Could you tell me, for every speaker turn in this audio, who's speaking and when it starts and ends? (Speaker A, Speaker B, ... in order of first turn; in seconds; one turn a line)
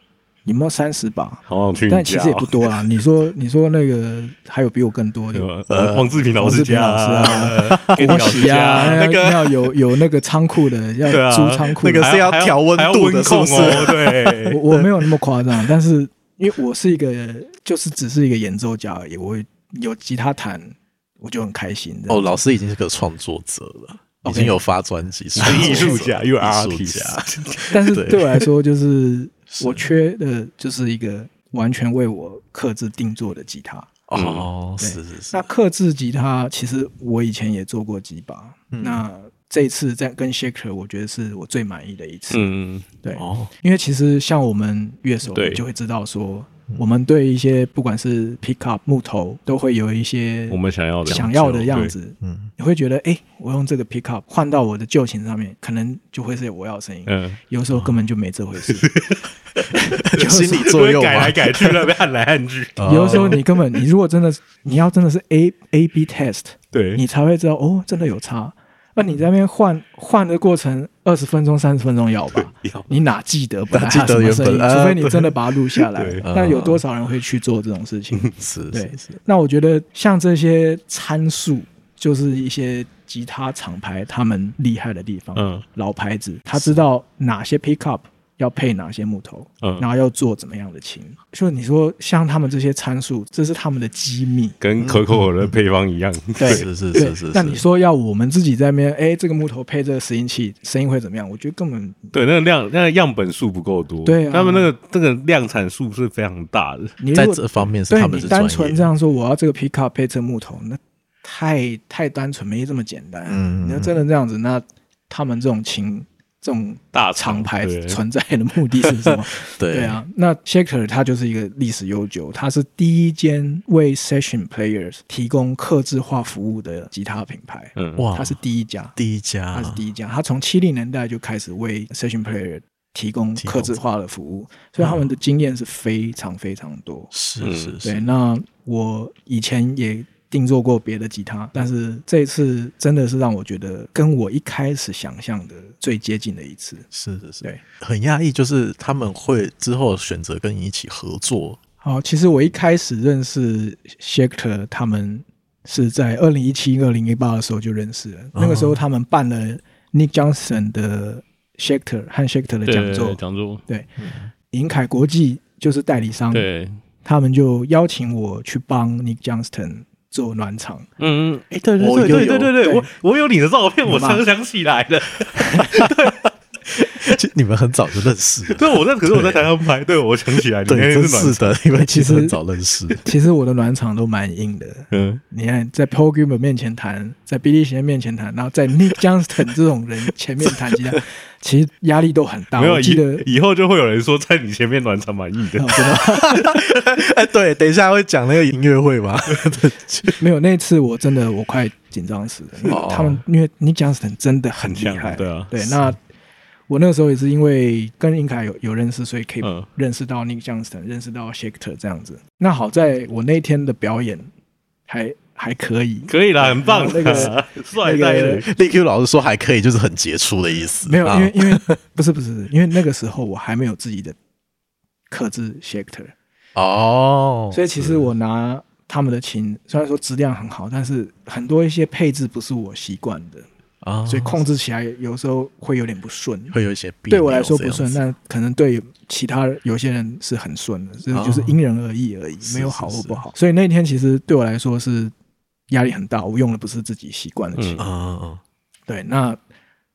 Speaker A: 0.5-5.5
Speaker B: 1.5-2.5
Speaker B: 5.3-9.0
Speaker C: 5.7-6.1
Speaker A: 6.3-12.1
Speaker C: 7.6-9.7
Speaker B: 11.1-14.6
Speaker C: 11.8-14.9
Speaker A: 14.5-22.3
Speaker C: 22.1-28.5
Speaker A: 24.2-24.6
Speaker B: 25.4-27.7
Speaker A: 25.4-26.0
Speaker A: 27.7-33.9
Speaker C: 29.5-29.9
Speaker C: 34.1-35.5
Speaker B: 34.1-34.5
Speaker A: 34.8-42.5
Speaker C: 38.7-39.0
Speaker B: 42.3-42.9
Speaker A: 43.0-58.9
Speaker C: 43.2-43.5
Speaker B: 45.3-45.6
Speaker B: 50.5-52.0
Speaker C: 52.2-52.5
Speaker B: 57.1-57.4
Speaker B: 58.6-63.5
Speaker A: 59.7-60.7
Speaker C: 60.0-62.0
Speaker C: 62.8-63.4
Speaker A: 62.8-94.6
Speaker B: 66.7-67.0
Speaker B: 72.4-72.9
Speaker C: 73.7-76.8
Speaker B: 76.0-76.2
Speaker C: 78.3-79.2
Speaker B: 85.4-85.7
Speaker B: 94.6-96.7
Speaker C: 94.8-95.5
Speaker A: 96.4-102.0
Speaker C: 96.5-97.7
Speaker B: 102.1-107.0
Speaker A: 104.0-104.7
Speaker A: 107.0-128.9
Speaker C: 107.1-108.9
Speaker C: 113.3-114.0
Speaker B: 116.9-118.0
Speaker C: 119.6-120.0
Speaker B: 127.8-128.0
Speaker C: 128.0-128.4
Speaker C: 129.0-129.8
Speaker A: 129.5-137.1
Speaker C: 133.4-133.8
Speaker C: 134.8-135.1
Speaker C: 137.1-138.1
Speaker B: 137.4-137.8
Speaker A: 137.8-146.9
Speaker C: 146.9-151.6
Speaker A: 151.8-163.9
Speaker C: 158.3-158.8
Speaker B: 162.7-163.6
Speaker C: 164.0-164.3
Speaker A: 164.5-166.5
Speaker B: 166.3-166.8
Speaker A: 167.0-170.9
Speaker B: 171.0-176.3
Speaker C: 171.5-172.8
Speaker A: 173.9-174.2
Speaker C: 176.7-179.5
Speaker B: 178.5-181.6
Speaker C: 180.7-183.0
Speaker A: 181.8-182.4
Speaker A: 183.0-193.2
Speaker B: 184.9-185.2
Speaker B: 192.6-195.9
Speaker A: 195.6-196.5
Speaker C: 195.9-200.2
Speaker A: 200.2-206.0
Speaker C: 202.7-203.2
Speaker B: 204.7-205.6
Speaker A: 206.7-214.3
Speaker B: 209.4-209.7
Speaker A: 214.9-218.5
Speaker B: 216.1-218.5
Speaker C: 218.5-221.8
Speaker A: 220.8-224.2
Speaker A: 225.1-226.1
Speaker C: 226.6-228.1
Speaker A: 227.5-233.5
Speaker C: 233.8-234.5
Speaker A: 234.1-236.6
Speaker C: 236.5-238.0
Speaker A: 237.1-245.1
Speaker C: 241.1-241.6
Speaker C: 242.4-243.2
Speaker A: 245.7-247.8
Speaker B: 247.6-247.8
Speaker C: 247.8-248.4
Speaker A: 248.9-249.4